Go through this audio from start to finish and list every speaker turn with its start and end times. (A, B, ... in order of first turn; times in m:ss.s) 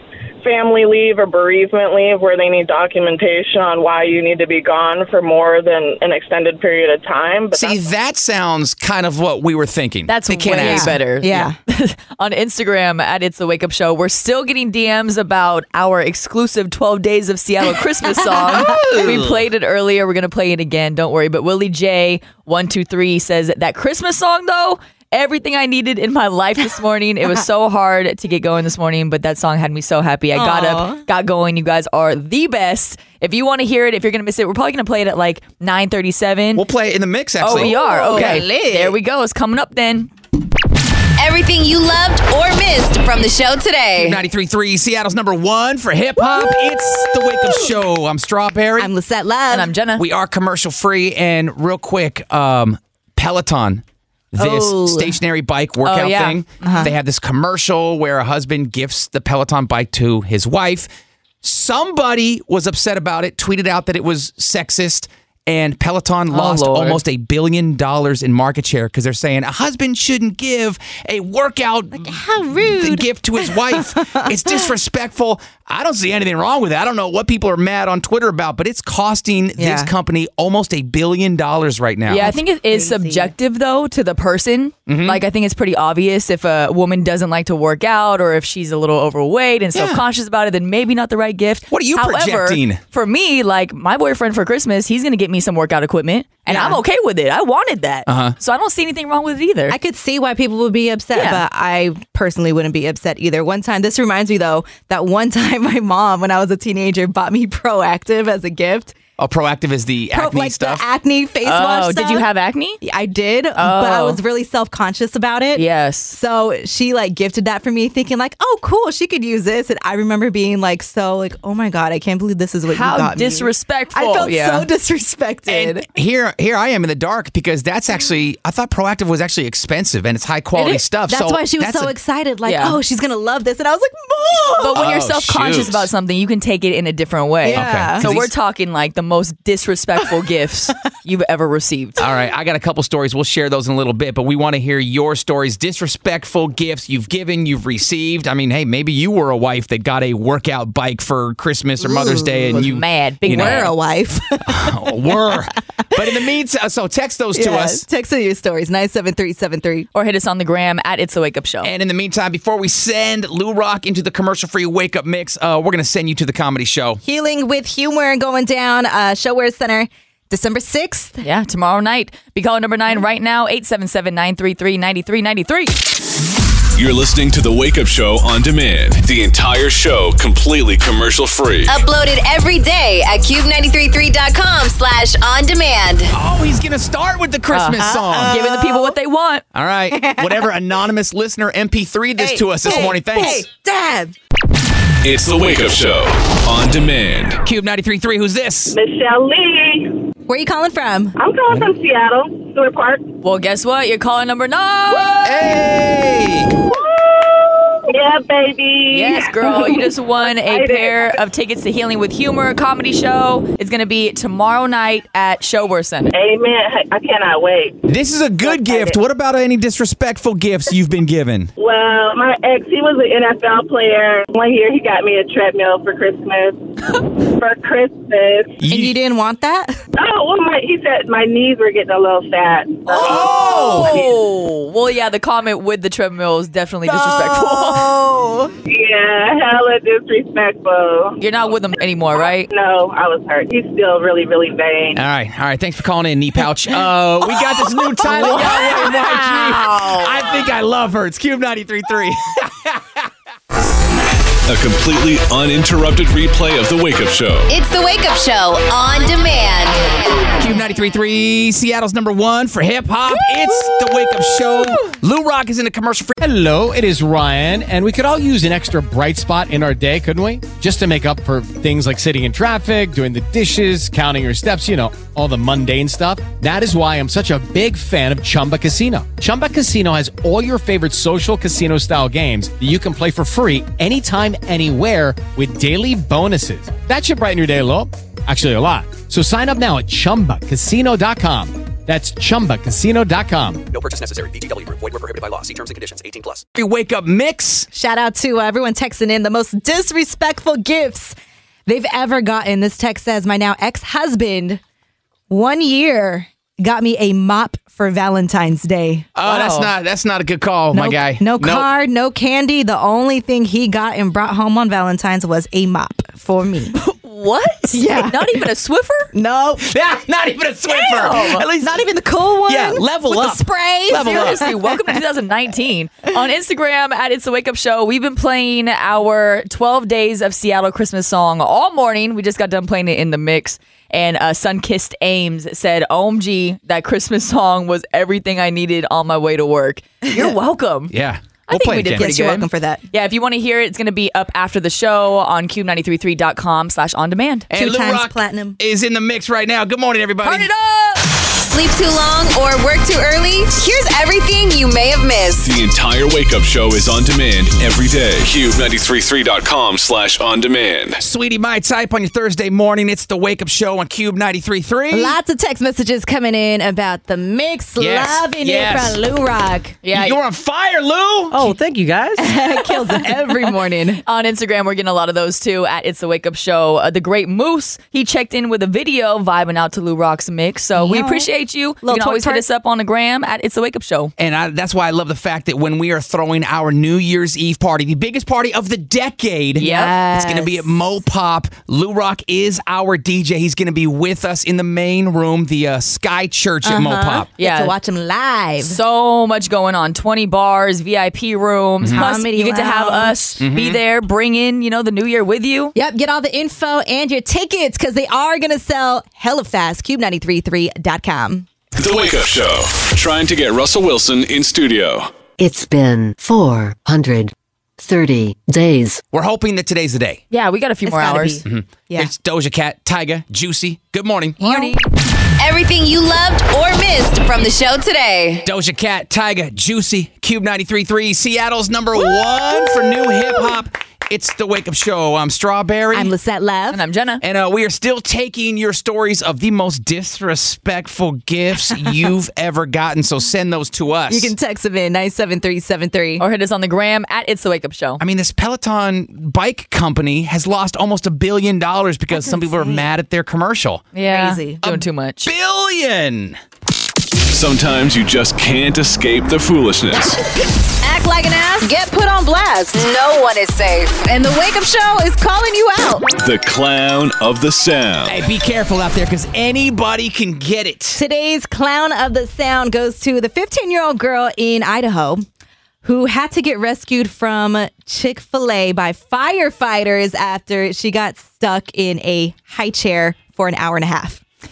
0:00.4-0:07.9 A
0:07.5-0:11.0 B
0:10.1-0:36.6 C
0:10.5-0:11.6 D
0:18.5-0:18.8 D
0:18.5-0:19.4 B
0:30.3-0:31.0 D
0:36.5-0:38.4 B
0:37.4-0:40.1 C
0:37.5-0:39.0 D
0:41.2-0:44.2 E
0:44.0-0:48.9 B
0:46.2-0:47.7 D
0:48.8-0:49.7 D
0:49.5-0:50.0 C
0:50.0-1:00.9 B
0:54.4-0:55.2 D
0:55.8-0:56.8 C
0:56.6-0:56.9 D
1:01.4-1:12.1 B
1:06.3-1:07.0 C
1:11.9-1:14.7 D
1:12.7-1:22.3 B
1:19.6-1:19.9 D
1:22.1-1:39.8 C
1:22.2-1:23.3 D
1:24.9-1:25.2 B
1:29.7-1:30.0 B
1:31.7-1:32.8 B
1:36.5-1:36.8 D
1:38.1-1:38.3 B
1:39.7-1:49.0 D
1:41.1-1:41.4 C
1:49.2-1:50.8 B
1:50.1-1:52.2 D
1:51.4-1:52.8 C
1:52.8-2:05.9 D
1:53.5-1:54.2 C
1:55.5-1:56.2 C
2:02.7-2:04.7 C
2:05.5-2:11.9 B
2:10.5-2:14.8 D
2:12.4-2:12.8 C
2:14.6-2:22.0 C
2:14.7-2:15.9 B
2:17.4-2:18.1 D
2:17.5-2:18.3 B
2:22.0-2:33.7 B
2:31.8-2:32.7 D
2:32.4-2:33.7 C
2:33.2-2:35.3 D
2:34.5-2:37.8 B
2:37.3-2:39.9 D
2:39.9-2:41.7 C
2:41.6-2:47.0 B
2:47.0-2:51.2 D
2:51.2-2:55.8 C
2:56.8-3:01.8 F
3:01.7-3:06.1 E
3:06.1-3:08.3 B
3:07.5-3:09.4 C
3:07.8-3:08.9 D
3:09.5-3:13.4 B
3:09.9-3:10.5 D
3:12.2-3:14.1 D
3:15.0-3:17.4 F
3:17.4-3:18.8 B
3:18.7-3:20.0 A
3:20.3-3:21.2 D
3:21.2-3:23.1 A
3:23.2-3:25.5 C
3:25.2-3:26.6 B
3:26.8-3:31.2 A
3:28.9-3:36.1 C
3:36.1-3:37.8 A
3:37.8-3:41.5 B
3:38.4-3:39.0 A
3:41.6-3:46.6 A
3:47.3-3:48.6 A
3:48.6-3:48.9 B
3:48.6-3:49.8 D
3:49.9-3:54.0 A
3:52.9-3:58.0 C
3:53.0-3:53.4 D
3:53.0-3:54.0 B
3:56.8-3:58.5 D
3:58.6-4:01.2 A
4:01.2-4:02.5 C
4:02.5-4:05.0 A
4:04.9-4:13.0 B
4:08.0-4:08.7 D
4:08.0-4:10.4 C
4:14.5-4:17.5 F
4:17.5-4:19.9 E
4:20.4-4:26.1 B
4:26.2-4:53.6 G
4:53.7-4:56.4 H
4:56.5-4:57.7 B
4:57.7-5:01.1 D
5:01.7-5:04.6 D
5:05.3-5:09.1 D
5:09.1-5:11.7 B
5:09.2-5:09.7 C
5:10.7-5:16.7 D
5:16.7-5:19.1 C
5:17.7-5:18.5 D
5:19.1-5:19.7 D
5:19.6-5:21.8 B
5:20.7-5:21.4 C
5:20.8-5:25.0 D
5:22.5-5:24.4 B
5:23.9-5:40.9 C
5:40.0-5:40.3 D
5:40.9-5:42.4 B
5:41.5-5:47.5 C
5:41.9-5:42.8 D
5:47.5-5:50.5 B
5:47.5-5:48.6 D
5:50.2-5:51.0 C
5:51.4-5:55.5 E
5:55.4-6:01.0 F
6:01.0-6:05.1 B
6:04.9-6:09.8 D
6:07.8-6:09.0 B
6:09.8-6:10.2 C
6:09.9-6:11.9 B
6:12.2-6:14.0 D
6:12.8-6:13.2 C
6:14.0-6:24.1 C
6:20.8-6:21.3 D
6:21.8-6:22.4 D
6:24.2-6:37.3 B
6:29.6-6:30.0 C
6:29.6-6:30.6 D
6:36.6-6:38.8 D
6:37.4-6:37.7 C
6:38.6-6:45.7 C
6:41.8-6:42.0 B
6:41.9-6:43.2 D
6:43.4-6:43.8 B
6:45.7-6:51.5 D
6:51.8-6:55.1 F
6:55.4-6:59.0 I
6:59.1-7:00.2 B
7:00.3-7:01.4 C
7:00.8-7:02.1 D
7:01.4-7:04.5 B
7:04.4-7:04.8 D
7:04.4-7:04.8 C
7:05.4-7:08.4 E
7:08.4-7:16.1 B
7:12.5-7:13.5 D
7:15.9-7:16.8 D
7:16.7-7:17.2 C
7:17.2-7:24.3 B
7:24.1-7:26.2 D
7:26.2-7:28.0 C
7:28.0-7:33.8 B
7:32.1-7:32.8 D
7:33.9-7:35.3 C
7:34.0-7:34.6 D
7:34.6-7:36.4 B
7:37.3-7:40.2 F
7:40.8-7:44.7 E
7:40.8-7:41.7 D
7:44.2-7:46.0 D
7:46.2-7:48.2 F
7:48.1-7:51.0 B
7:50.9-7:55.2 D
7:55.8-8:04.2 D